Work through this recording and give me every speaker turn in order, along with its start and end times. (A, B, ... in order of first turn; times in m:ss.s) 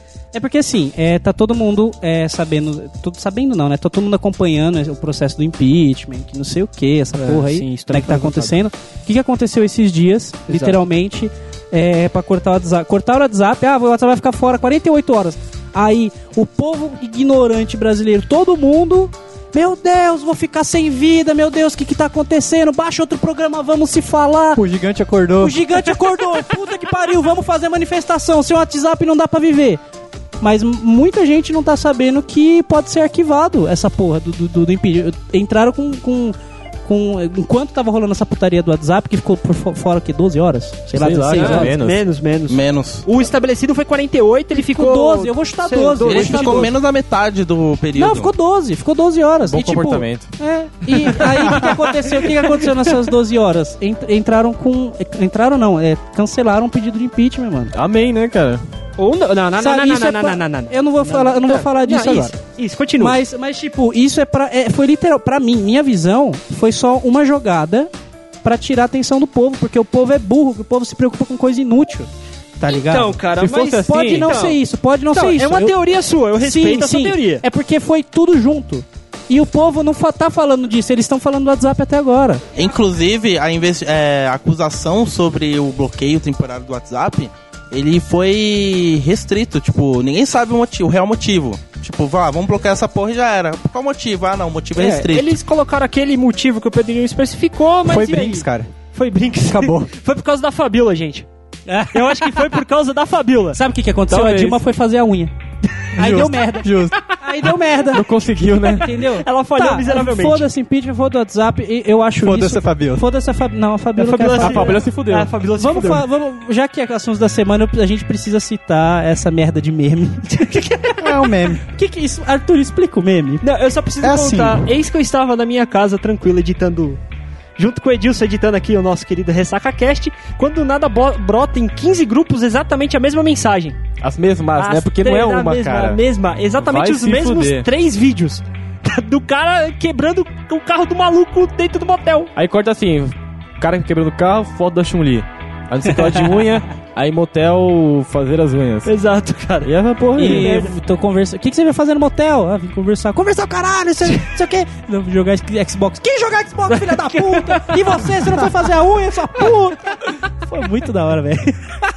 0:00.3-0:24.6 A
0:07.2-0:08.6 B
0:10.5-0:10.8 B
0:24.6-0:25.6 C
0:25.4-0:29.8 A
0:30.4-0:36.4 A
0:36.9-0:41.7 A
0:40.9-0:42.0 D
0:41.4-0:46.7 B
0:42.5-0:43.1 E
0:44.5-0:46.7 A
0:46.0-0:48.3 E
0:47.9-0:57.7 A
0:49.5-0:50.4 D
0:51.2-0:51.7 D
0:57.8-0:58.6 D
0:59.0-1:03.2 B
0:59.6-1:02.4 A
1:03.0-1:07.9 A
1:08.4-1:12.1 A
1:12.6-1:13.2 A
1:12.7-1:14.6 B
1:13.4-1:14.5 D
1:13.7-1:15.8 A
1:15.1-1:17.4 B
1:16.3-1:22.4 A
1:22.5-1:35.3 E
1:34.8-1:41.3 B
1:37.8-1:38.7 C
1:39.5-1:39.9 C
1:41.7-1:42.6 A
1:41.9-1:43.6 B
1:43.5-1:45.3 A
1:44.1-1:44.6 D
1:46.0-1:48.1 A
1:46.0-1:47.0 C
1:47.9-1:48.9 D
1:48.7-1:54.8 A
1:48.9-1:50.5 B
1:52.2-1:53.0 C
1:54.0-1:56.0 B
1:54.4-1:55.3 D
1:55.6-2:00.6 A
2:00.4-2:01.0 B
2:01.0-2:01.6 C
2:01.7-2:03.4 A
2:03.4-2:07.0 B
2:04.0-2:04.6 C
2:07.6-2:13.8 B
2:14.0-2:16.0 D
2:14.6-2:22.3 B
2:16.6-2:17.7 D
2:22.4-2:28.9 D
2:26.0-2:26.4 A
2:28.8-2:30.7 B
2:29.6-2:30.6 D
2:30.2-2:41.8 A
2:36.7-2:38.5 B